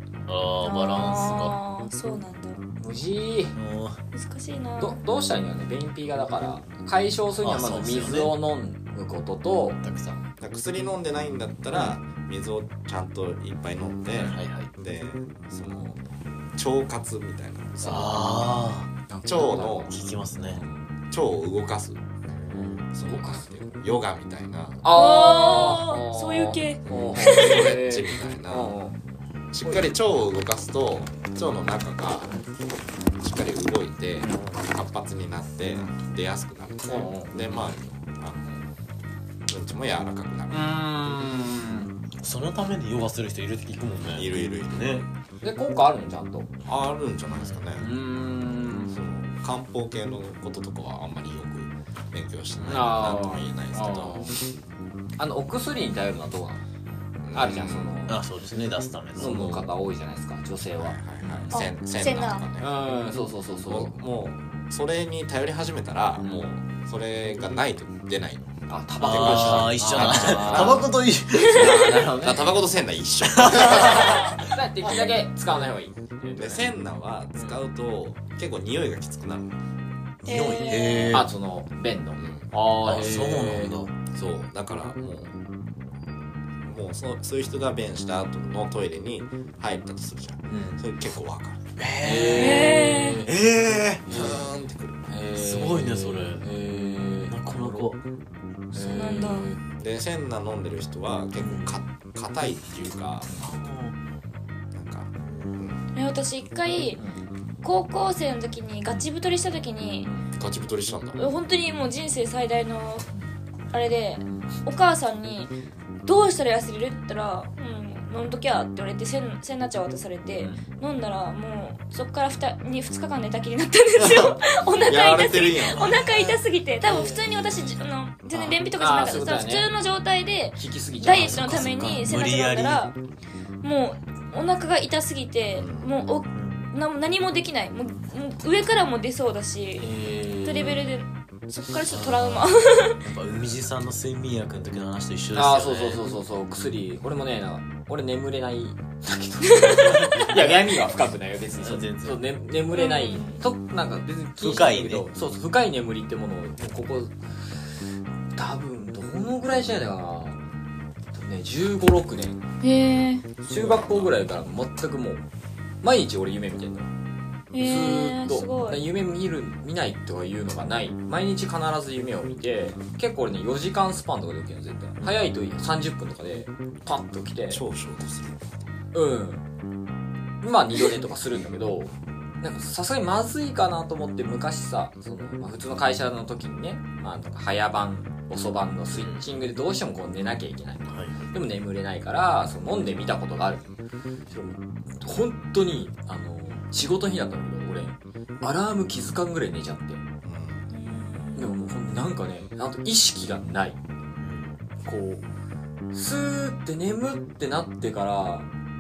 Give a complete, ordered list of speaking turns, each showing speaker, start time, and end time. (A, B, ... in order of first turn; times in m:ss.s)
0:00.3-0:01.6 A
0:00.6-0:02.6 B
0:02.8-0:03.6 C
0:03.6-0:04.0 A
0:04.1-0:05.0 B
0:04.8-0:09.8 C
0:07.4-0:08.4 A
0:09.8-0:10.2 A
0:10.4-0:16.0 D
0:14.2-0:14.7 A
0:16.6-0:18.2 D
0:17.8-0:18.9 A
0:19.1-0:20.8 C
0:19.2-0:20.0 D
0:19.9-0:20.6 A
0:21.1-0:22.1 D
0:22.3-0:22.9 A
0:22.9-0:24.9 D
0:23.0-0:23.4 C
0:24.8-0:29.0 C
0:24.9-0:27.6 B
0:26.9-0:28.7 D
0:29.5-0:32.4 D
0:33.2-0:38.7 D
0:34.2-0:34.5 C
0:36.9-0:37.3 C
0:39.5-0:40.6 D
0:40.5-0:41.9 C
0:42.2-0:45.0 A
0:44.2-0:45.1 D
0:45.4-0:46.5 C
0:46.7-0:47.9 D
0:47.3-0:47.7 A
0:47.8-0:48.9 C
0:48.9-0:54.3 D
0:52.6-0:54.4 C
0:55.2-0:56.6 C
0:57.2-0:58.0 D
0:57.3-0:58.2 C
0:58.1-0:59.5 A
0:59.2-0:59.7 D
0:59.2-1:01.7 C
1:00.8-1:02.7 D
1:01.5-1:02.5 B
1:02.6-1:04.0 C
1:03.7-1:10.9 D
1:08.7-1:10.9 C
1:09.0-1:12.5 A
1:11.4-1:11.8 B
1:11.5-1:14.5 D
1:11.8-1:12.3 C
1:13.3-1:14.4 A
1:13.5-1:16.7 C
1:16.4-1:19.6 D
1:20.2-1:21.3 A
1:20.2-1:21.2 B
1:21.1-1:23.8 C
1:22.2-1:22.5 D
1:22.8-1:24.0 A
1:24.1-1:25.4 D
1:26.6-1:31.7 D
1:30.5-1:30.8 A
1:31.8-1:34.5 A
1:32.0-1:33.3 C
1:32.2-1:33.2 B
1:34.1-1:35.0 D
1:34.1-1:34.4 C
1:35.1-1:37.9 C
1:35.3-1:36.5 A
1:37.3-1:38.0 A
1:38.7-1:39.6 C
1:38.8-1:39.5 B
1:39.8-1:43.4 D
1:41.4-1:41.8 A
1:43.4-1:44.0 A
1:44.7-1:45.8 D
1:45.2-1:45.8 A
1:45.9-1:47.0 B
1:47.0-1:47.2 C
1:47.6-1:50.1 B
1:50.4-1:51.3 D
1:51.2-1:53.1 B
1:53.7-2:13.0 B
1:54.2-1:54.5 C
2:04.0-2:06.1 D
2:08.3-2:09.7 C
2:10.6-2:11.4 C
2:11.0-2:12.9 A
2:13.6-2:19.9 B
2:15.6-2:15.9 D
2:16.3-2:16.7 A
2:19.8-2:20.9 C
2:20.4-2:23.0 B
2:21.7-2:26.0 A
2:25.3-2:37.1 C
2:29.5-2:29.8 B
2:29.9-2:30.4 A
2:31.6-2:32.2 A
2:32.7-2:33.4 B
2:34.4-2:35.1 A
2:38.4-2:40.4 C
2:41.1-2:42.5 C
2:42.6-2:43.3 B
2:43.4-2:44.1 D
2:43.5-2:45.2 C
2:45.8-2:46.9 C
2:47.5-2:48.8 B
2:47.6-2:57.6 C
2:57.5-2:58.7 D
2:58.9-2:59.4 C
3:00.4-3:13.7 C
3:08.9-3:09.4 A
3:10.9-3:11.3 A
3:14.3-3:20.0 C
3:20.2-3:20.7 D
3:20.7-3:21.6 B
3:21.4-3:23.8 C
3:24.2-3:24.7 A
3:24.8-3:25.2 C
3:25.9-3:28.5 C